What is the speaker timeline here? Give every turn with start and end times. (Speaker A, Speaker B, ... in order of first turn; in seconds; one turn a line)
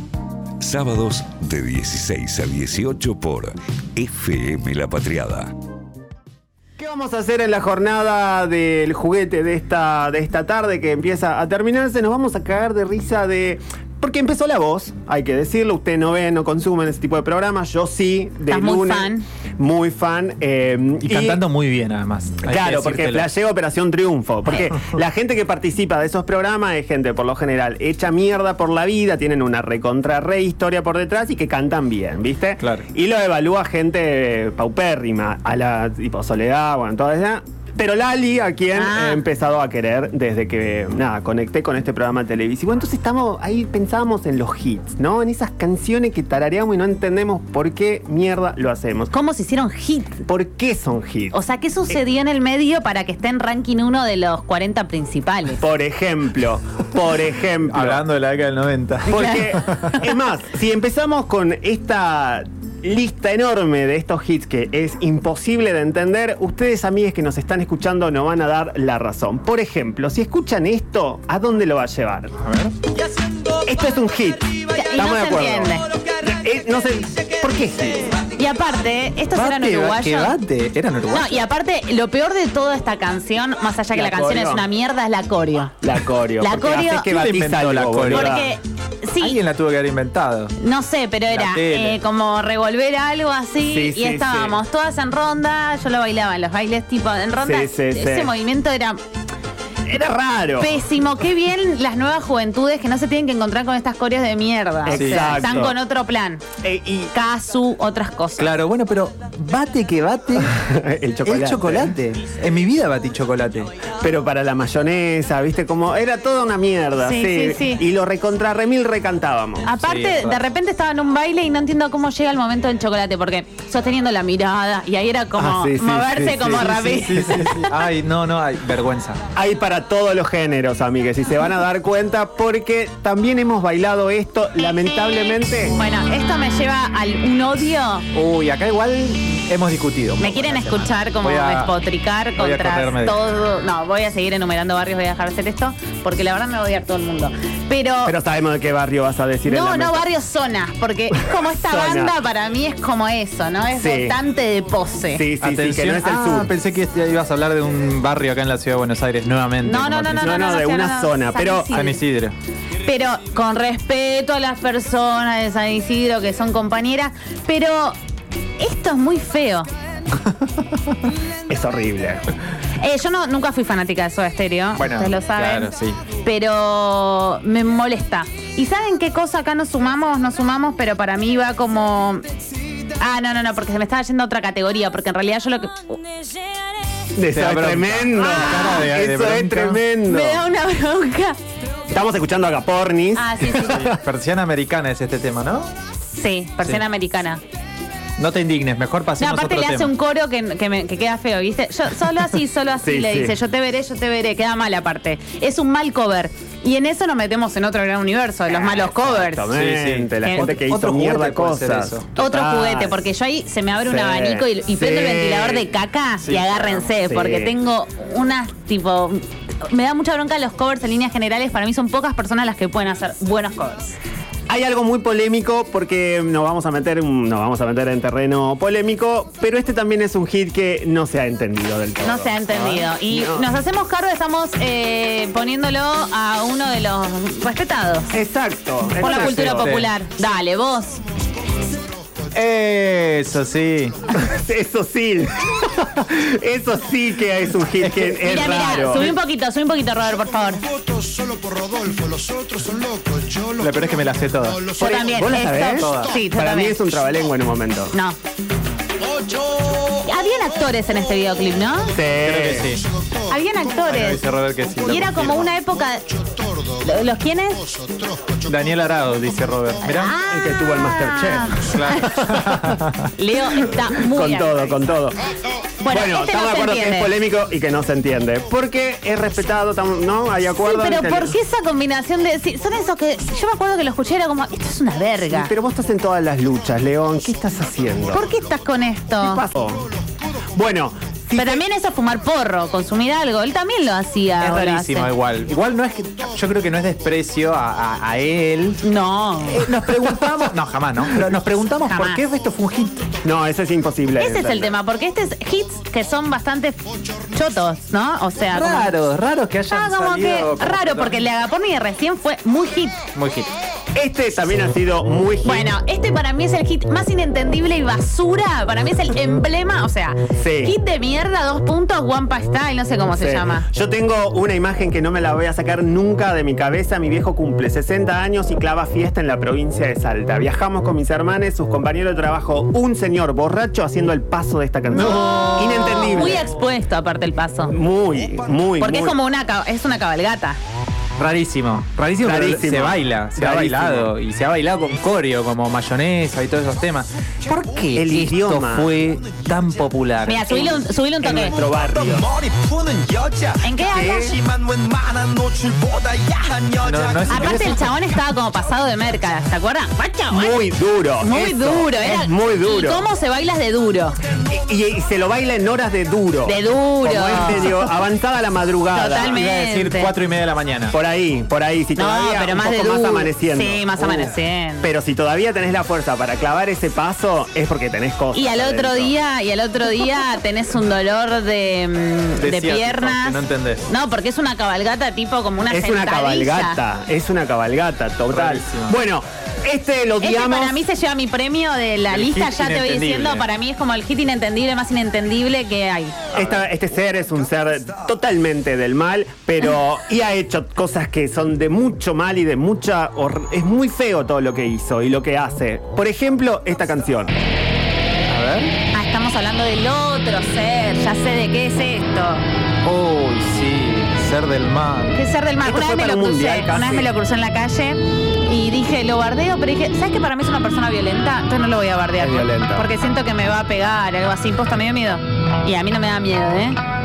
Speaker A: 0.6-5.5
Speaker B: 6.8-21.4
Speaker C: 18.5-19.2
Speaker D: 21.0-23.3
Speaker B: 22.4-49.1
Speaker D: 32.6-32.9
Speaker C: 38.7-39.2
Speaker C: 49.1-50.2
Speaker B: 50.3-51.4
Speaker C: 51.3-55.6
Speaker B: 55.6-58.0
Speaker D: 57.7-60.0
Speaker B: 59.0-72.3
Speaker D: 72.4-72.7
Speaker B: 73.6-78.2
Speaker C: 74.7-75.9
Speaker C: 78.4-80.3
Speaker D: 79.3-81.5
Speaker C: 81.1-85.7
Speaker B: 83.9-84.7
Speaker B: 85.8-88.5
Speaker C: 86.4-87.1
Speaker D: 87.1-88.3
Speaker C: 88.1-89.4
Speaker D: 89.2-90.5
Speaker C: 90.6-99.0
Speaker D: 91.3-92.0
Speaker B: 93.7-94.6
Speaker B: 97.4-98.3
Speaker B: 99.8-100.7
Speaker C: 100.6-106.4
Speaker B: 104.8-105.8
Speaker D: 104.9-105.5
Speaker B: 106.6-107.1
Speaker C: 107.1-108.5
Speaker D: 108.4-110.6
Speaker B: 110.5-111.9
Speaker D: 111.2-113.7
Speaker B: 114.0-119.7
Speaker C: 117.0-117.8
Speaker C: 119.6-127.8
Speaker D: 119.7-120.4
Speaker B: 125.3-127.4
Speaker D: 126.5-129.2
Speaker B: 129.3-135.8
Speaker C: 135.8-138.1
Speaker D: 138.1-141.7
Speaker C: 140.2-148.2
Speaker D: 142.3-143.2
Speaker B: 148.0-150.1
Speaker C: 149.4-155.2
Speaker B: 151.6-152.2
Speaker B: 153.7-154.2
Speaker B: 155.1-156.5
Speaker D: 155.4-160.4
Speaker C: 159.6-162.0
Speaker B: 160.2-161.7
Speaker D: 161.7-162.3
Speaker C: 162.8-167.9
Speaker C: 168.6-169.7
Speaker B: 171.5-172.2
Speaker C: 172.8-182.2
Speaker D: 174.7-176.0
Speaker C: 183.0-186.0
Speaker B: 187.2-190.4
Speaker D: 187.3-189.8
Speaker C: 188.2-188.8
Speaker C: 190.1-191.4
Speaker B: 191.9-193.4
Speaker C: 193.1-193.9
Speaker D: 193.5-195.7
Speaker C: 196.0-197.4
Speaker D: 198.2-199.9
Speaker C: 199.2-209.5
Speaker B: 202.8-203.4
Speaker B: 208.5-213.1
Speaker D: 209.5-212.1
Speaker C: 210.2-210.5
Speaker C: 212.2-223.9
Speaker B: 213.8-215.7
Speaker D: 216.2-216.9
Speaker B: 217.0-217.5
Speaker B: 224.5-232.4
Speaker C: 232.0-238.1
Speaker D: 232.5-232.9
Speaker B: 233.0-233.5
Speaker B: 238.1-239.8
Speaker D: 239.0-239.9
Speaker C: 239.0-241.0
Speaker D: 242.3-243.9
Speaker B: 244.2-249.2
Speaker D: 247.8-248.2
Speaker C: 248.2-250.6
Speaker E: 251.8-252.1
Speaker D: 253.5-254.8
Speaker C: 254.8-256.8
Speaker B: 254.8-257.9
Speaker D: 255.7-256.1
Speaker C: 257.9-258.2
Speaker C: 259.9-262.0
Speaker B: 261.9-262.8
Speaker D: 262.2-262.9
Speaker C: 263.2-264.2
Speaker D: 263.9-265.5
Speaker C: 264.8-266.1
Speaker C: 266.7-267.7
Speaker D: 268.4-270.1
Speaker C: 269.8-272.2
Speaker B: 270.3-271.7
Speaker D: 271.6-273.1
Speaker C: 273.2-274.8
Speaker B: 273.9-275.2
Speaker C: 275.8-277.1
Speaker B: 275.9-281.4
Speaker C: 280.6-285.5
Speaker B: 285.3-288.2
Speaker C: 288.1-289.4
Speaker B: 289.2-289.9
Speaker B: 290.5-291.6
Speaker C: 291.4-295.1
Speaker D: 294.4-298.8
Speaker C: 298.8-299.6
Speaker D: 299.5-303.1
Speaker C: 301.9-302.2
Speaker B: 303.2-304.7
Speaker C: 304.2-308.9
Speaker D: 308.5-311.2
Speaker C: 309.7-313.0
Speaker D: 313.1-313.5
Speaker B: 313.9-315.7
Speaker C: 315.4-323.7
Speaker B: 320.3-320.7
Speaker B: 323.1-336.5
Speaker D: 335.0-336.1
Speaker C: 335.1-337.8
Speaker B: 337.7-339.2
Speaker C: 338.8-340.6
Speaker D: 341.2-350.5
Speaker B: 342.2-344.1
Speaker B: 347.9-348.9
Speaker C: 350.3-351.6
Speaker B: 350.5-352.3
Speaker E: 352.4-353.5
Speaker C: 353.6-354.4
Speaker B: 353.9-354.4
Speaker E: 354.5-356.7
Speaker D: 356.8-357.9
Speaker C: 357.3-360.6
Speaker B: 360.3-363.0
Speaker C: 361.2-364.1
Speaker B: 364.5-369.4
Speaker C: 366.4-367.9
Speaker C: 368.9-370.1
Speaker D: 369.3-370.9
Speaker B: 370.9-379.1
Speaker C: 371.9-374.9
Speaker C: 378.3-386.8
Speaker D: 382.4-383.9
Speaker B: 385.7-390.8
Speaker D: 388.3-389.0
Speaker C: 390.2-396.2
Speaker D: 392.1-393.5
Speaker D: 396.3-396.6
Speaker B: 396.3-407.3
Speaker D: 408.3-408.8
Speaker C: 408.9-412.4
Speaker D: 412.8-415.2
Speaker C: 415.1-426.8
Speaker B: 415.6-417.1
Speaker B: 422.2-422.9